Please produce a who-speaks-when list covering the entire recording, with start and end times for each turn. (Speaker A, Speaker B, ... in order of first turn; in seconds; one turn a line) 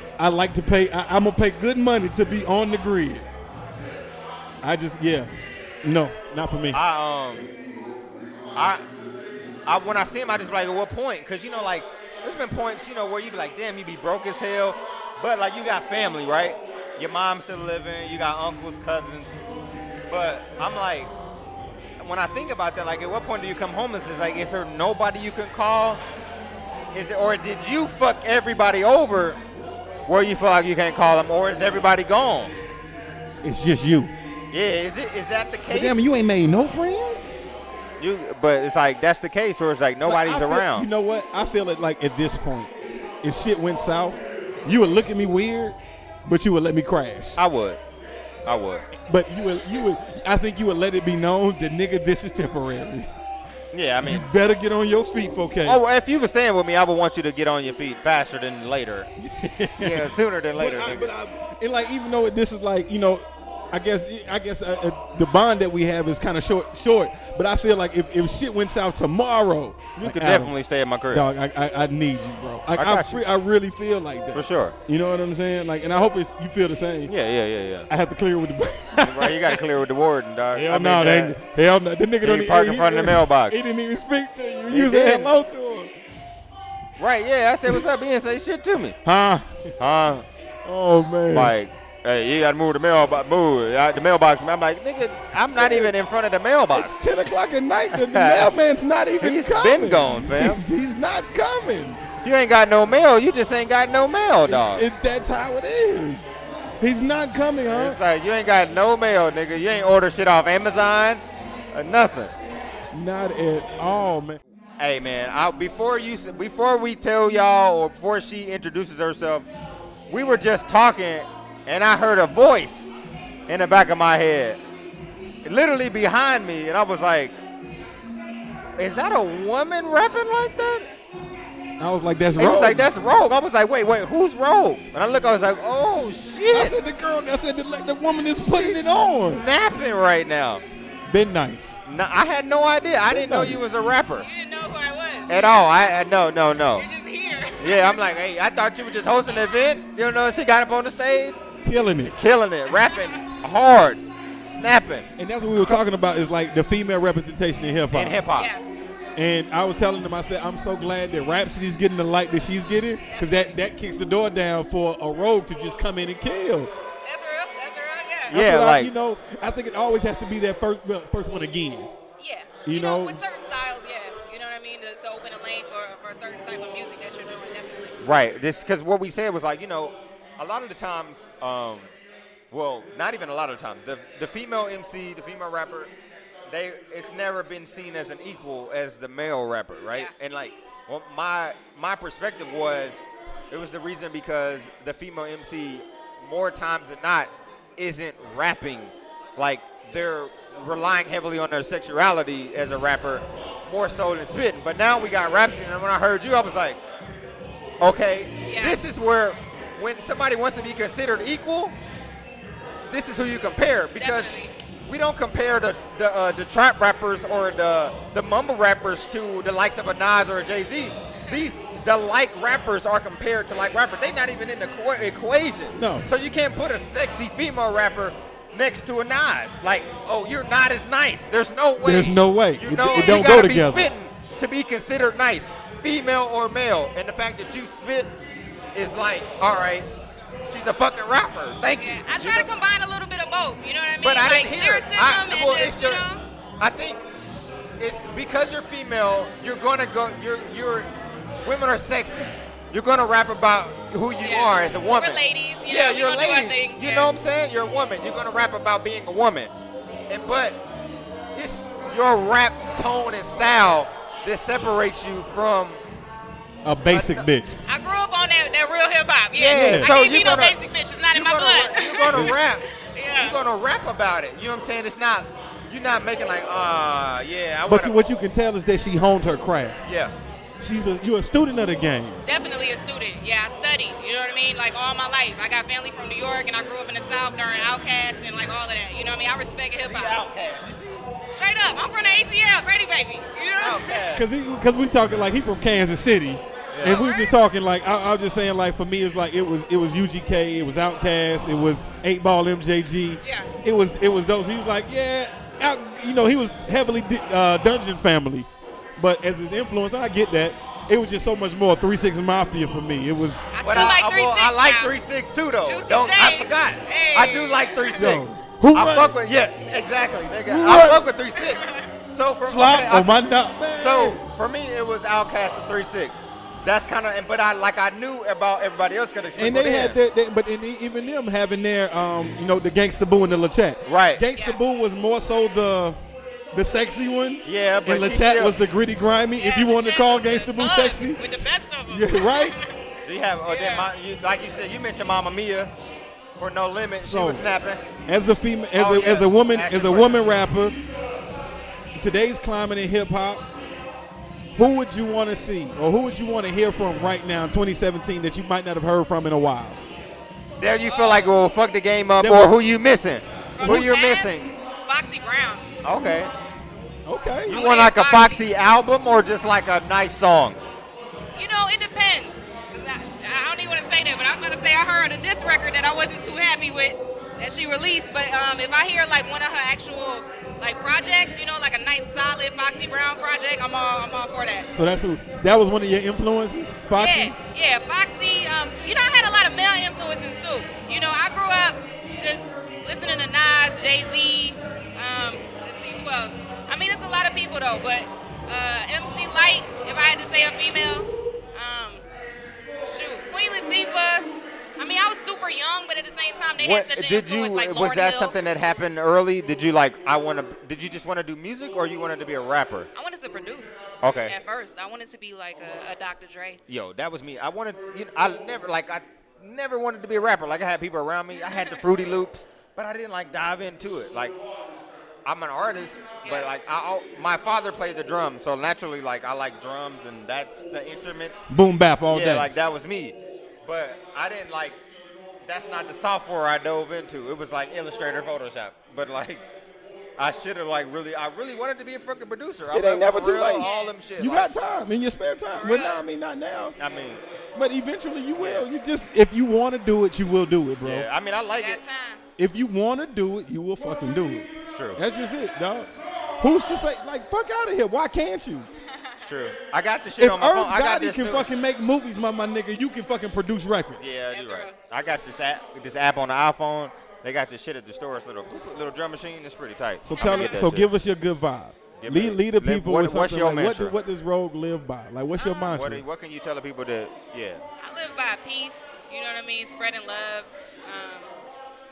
Speaker A: 0.2-3.3
Speaker A: 4.6-5.3
Speaker A: 5.8-6.8
Speaker B: 6.7-7.5
Speaker B: 8.6-8.8
Speaker B: 9.7-19.4
Speaker B: 20.1-21.1
Speaker B: 22.0-26.0
Speaker B: 26.9-29.4
Speaker B: 30.1-32.5
Speaker A: 33.4-34.1
Speaker B: 34.5-36.0
Speaker A: 35.7-37.3
Speaker B: 38.0-40.9
Speaker A: 40.0-42.7
Speaker A: 43.2-47.4
Speaker B: 47.4-47.8
Speaker B: 48.5-48.9
Speaker A: 49.1-53.1
Speaker B: 53.7-54.3
Speaker A: 54.0-55.8
Speaker B: 55.6-59.1
Speaker A: 59.2-70.5
Speaker B: 59.8-61.1
Speaker B: 70.0-71.3
Speaker A: 71.1-77.1
Speaker B: 72.7-73.3
Speaker B: 74.3-74.8
Speaker B: 77.1-77.9
Speaker A: 77.9-79.6
Speaker B: 79.0-81.4
Speaker A: 80.5-85.9
Speaker B: 82.2-83.6
Speaker B: 84.7-85.3
Speaker B: 87.0-89.0
Speaker A: 89.0-89.7
Speaker B: 89.8-90.3
Speaker A: 90.7-91.5
Speaker B: 91.3-97.0
Speaker A: 95.5-95.9
Speaker A: 96.7-102.0
Speaker B: 97.9-98.5
Speaker B: 99.2-100.6
Speaker B: 102.2-104.8
Speaker A: 104.5-106.3
Speaker A: 106.8-108.0
Speaker B: 107.7-112.3
Speaker A: 112.9-114.4
Speaker B: 114.8-119.5
Speaker B: 120.1-123.0
Speaker B: 123.5-124.6
Speaker B: 125.4-127.4
Speaker B: 128.8-130.9
Speaker A: 131.8-132.9
Speaker B: 132.4-136.8
Speaker A: 136.5-139.4
Speaker B: 138.5-140.6
Speaker A: 141.1-141.8
Speaker B: 141.9-144.3
Speaker A: 143.1-143.6
Speaker C: 144.2-145.7
Speaker B: 145.3-146.9
Speaker C: 146.7-148.0
Speaker B: 147.6-151.4
Speaker A: 151.6-152.2
Speaker B: 152.0-155.1
Speaker C: 152.7-153.2
Speaker A: 155.2-158.2
Speaker B: 157.9-158.5
Speaker C: 158.4-158.6
Speaker A: 159.2-166.7
Speaker C: 163.1-163.4
Speaker C: 167.0-168.4
Speaker B: 168.3-168.9
Speaker A: 168.3-171.9
Speaker C: 172.2-178.0
Speaker A: 172.7-173.2
Speaker B: 178.0-181.9
Speaker B: 182.5-185.9
Speaker B: 186.5-206.8
Speaker B: 207.8-211.8
Speaker C: 208.5-208.8
Speaker B: 212.9-214.3
Speaker C: 214.0-214.5
Speaker B: 214.9-238.1
Speaker A: 225.8-226.1
Speaker A: 231.8-233.9
Speaker B: 238.8-239.9
Speaker B: 240.5-242.5
Speaker C: 241.8-246.2
Speaker B: 244.0-246.1
Speaker B: 246.6-247.1
Speaker B: 247.8-250.9
Speaker B: 251.4-259.5
Speaker C: 254.2-257.1
Speaker B: 260.1-260.6
Speaker B: 261.4-265.8
Speaker A: 266.6-267.6
Speaker B: 266.9-267.3
Speaker C: 267.7-272.4
Speaker B: 269.3-270.6
Speaker A: 269.5-269.9
Speaker B: 271.1-272.6
Speaker C: 272.9-273.4
Speaker B: 273.2-277.9
Speaker A: 277.7-279.8
Speaker B: 279.9-280.1
Speaker A: 280.6-282.2
Speaker C: 282.2-290.2
Speaker B: 289.8-291.0
Speaker C: 291.3-294.0
Speaker B: 293.6-294.3
Speaker A: 294.1-313.4
Speaker B: 296.7-297.1
Speaker C: 296.8-297.3
Speaker C: 303.2-303.5
Speaker C: 313.5-314.9
Speaker B: 313.6-323.2
Speaker C: 315.6-318.2
Speaker A: 318.0-319.1
Speaker A: 320.4-321.1
Speaker C: 321.4-321.9
Speaker A: 322.5-324.2
Speaker B: 323.8-330.0
Speaker A: 329.4-336.0
Speaker B: 333.9-334.2
Speaker A: 336.5-341.2
Speaker B: 337.4-338.6
Speaker C: 339.4-342.8
Speaker A: 341.9-342.6
Speaker B: 343.1-345.7
Speaker C: 343.5-343.9
Speaker B: 346.4-347.8
Speaker A: 347.0-347.5
Speaker A: 348.1-350.8
Speaker B: 348.8-350.2
Speaker A: 352.0-353.4
Speaker A: 354.6-359.8
Speaker B: 360.6-364.5
Speaker C: 360.9-361.3
Speaker A: 362.2-362.5
Speaker C: 363.6-365.7
Speaker B: 365.8-366.3
Speaker A: 367.1-367.6
Speaker C: 367.5-368.4
Speaker B: 367.5-370.6
Speaker C: 371.4-384.7
Speaker A: 384.7-387.4
Speaker C: 386.9-402.1
Speaker C: 402.9-404.3
Speaker C: 404.8-408.3
Speaker B: 406.6-412.9
Speaker C: 412.9-416.6
Speaker B: 414.0-414.4
Speaker B: 416.7-424.4
Speaker C: 421.5-421.8
Speaker B: 425.2-431.4
Speaker C: 426.2-426.5
Speaker A: 431.5-432.5
Speaker B: 432.1-434.8
Speaker B: 435.5-439.4
Speaker B: 440.2-444.6
Speaker A: 442.7-443.7
Speaker C: 443.6-443.9
Speaker A: 444.2-446.8
Speaker C: 445.6-446.0
Speaker B: 446.8-447.2
Speaker A: 447.6-451.1
Speaker B: 448.4-448.7
Speaker B: 450.8-451.8
Speaker C: 451.6-452.2
Speaker A: 452.4-458.7
Speaker B: 454.7-455.0
Speaker C: 458.9-459.2
Speaker B: 459.2-461.5
Speaker A: 460.2-464.0
Speaker B: 464.0-470.9
Speaker C: 464.3-464.7
Speaker A: 470.0-476.0
Speaker C: 470.2-470.6
Speaker B: 472.0-474.0
Speaker C: 475.4-475.7
Speaker B: 475.7-477.6
Speaker C: 477.8-481.3